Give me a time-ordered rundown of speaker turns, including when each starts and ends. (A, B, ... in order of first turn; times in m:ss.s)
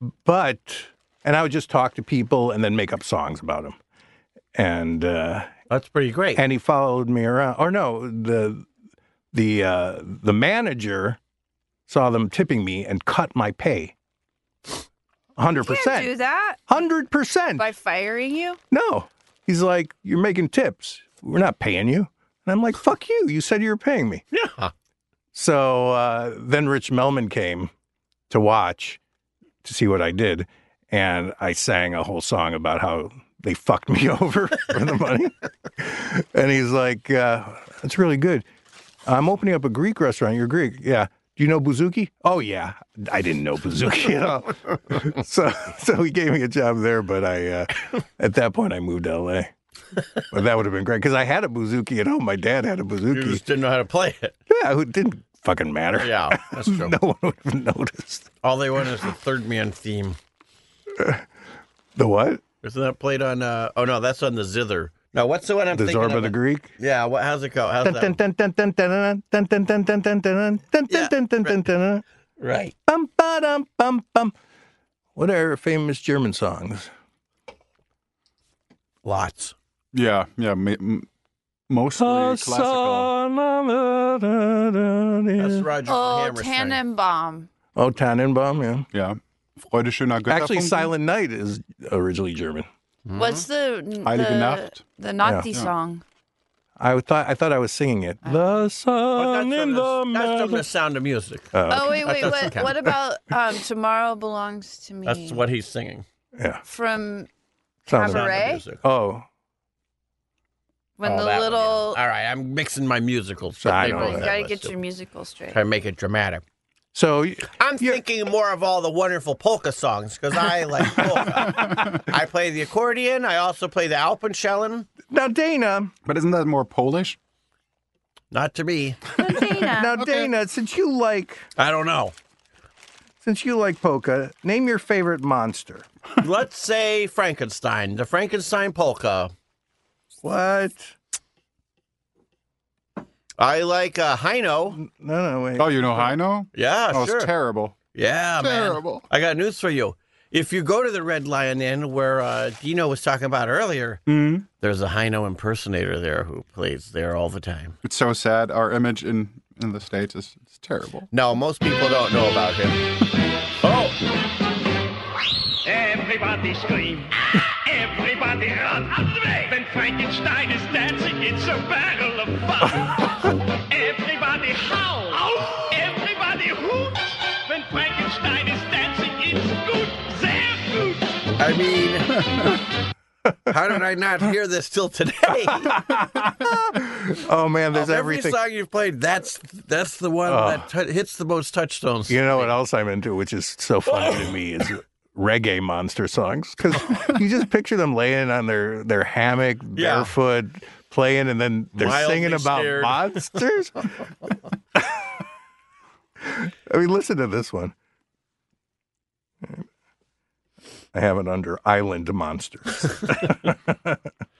0:00.2-0:03.8 A
0:04.6-0:05.5 A
0:05.7-0:06.4 B
0:06.4-0:08.7 A
0:09.3-0:11.2 A
0:11.9-0:13.9 A
0:15.4-0:16.2 A
0:15.6-0:16.7 C
0:16.7-0:17.7 A
0:17.6-0:18.6 C
0:18.7-0:24.2 A
0:24.3-0:24.7 B
0:25.3-0:27.7 A
0:28.3-0:29.0 A
0:29.6-0:38.5 A
0:39.1-0:49.5 A
0:50.3-0:53.4 A
0:53.1-0:54.4 B
0:54.5-0:58.3 A
0:56.0-0:56.9 B
0:58.4-1:00.2 B
1:00.9-1:01.3 A
1:02.0-1:02.4 A
1:02.6-1:08.2 B
1:05.7-1:06.7 A
1:07.8-1:12.0 A
1:10.9-1:11.6 B
1:12.4-1:12.7 B
1:12.9-1:14.3 A
1:15.2-1:16.9 A
1:19.0-1:19.6 B
1:19.9-1:21.1 D
1:21.7-1:23.1 D
1:22.0-1:25.7 A
1:25.4-1:26.8 B
1:25.9-1:27.5 C
1:27.8-1:28.9 A
1:28.9-1:30.9 D
1:30.3-1:32.7 A
1:33.1-1:33.4 B
1:33.2-1:36.0 C
1:34.0-1:34.8 D
1:35.2-1:35.5 A
1:36.8-1:40.6 A
1:39.1-1:42.8 B
1:41.5-1:42.7 A
1:41.7-1:45.4 C
1:45.0-1:46.0 B
1:46.4-1:46.6 A
1:46.6-1:47.3 C
1:47.9-1:48.6 C
1:47.9-1:49.3 A
1:48.1-1:48.8 B
1:51.0-1:52.0 C
1:51.0-1:54.7 B
1:53.6-1:54.3 A
1:53.8-1:55.6 C
1:55.5-1:56.4 B
1:56.9-1:58.0 A
1:57.6-2:04.9 B
2:05.1-2:05.9 A
2:06.0-2:07.2 D
2:08.3-2:09.0 B
2:09.2-2:10.0 C
2:09.4-2:10.3 D
2:09.6-2:11.4 A
2:11.6-2:12.1 B
2:13.2-2:15.9 A
2:16.2-2:19.3 B
2:20.2-2:21.0 A
2:23.4-2:24.8 B
2:24.8-2:26.1 A
2:25.6-2:27.8 D
2:26.6-2:27.3 B
2:28.0-2:34.0 B
2:28.4-2:29.1 D
2:34.1-2:34.5 D
2:34.6-2:37.8 B
2:37.8-2:41.1 D
2:41.1-2:42.8 B
2:43.6-2:44.0 B
2:45.6-2:53.2 E
2:53.7-3:01.2 E
3:01.4-3:02.4 B
3:03.5-3:05.7 B
3:05.5-3:08.4 A
3:07.7-3:12.5 B
3:10.2-3:10.6 A
3:12.1-3:24.1 A
3:13.9-3:14.4 B
3:19.8-3:20.1 B
3:21.8-3:23.2 B
3:24.8-3:25.1 A
3:26.2-3:27.7 A
3:30.9-3:34.0 A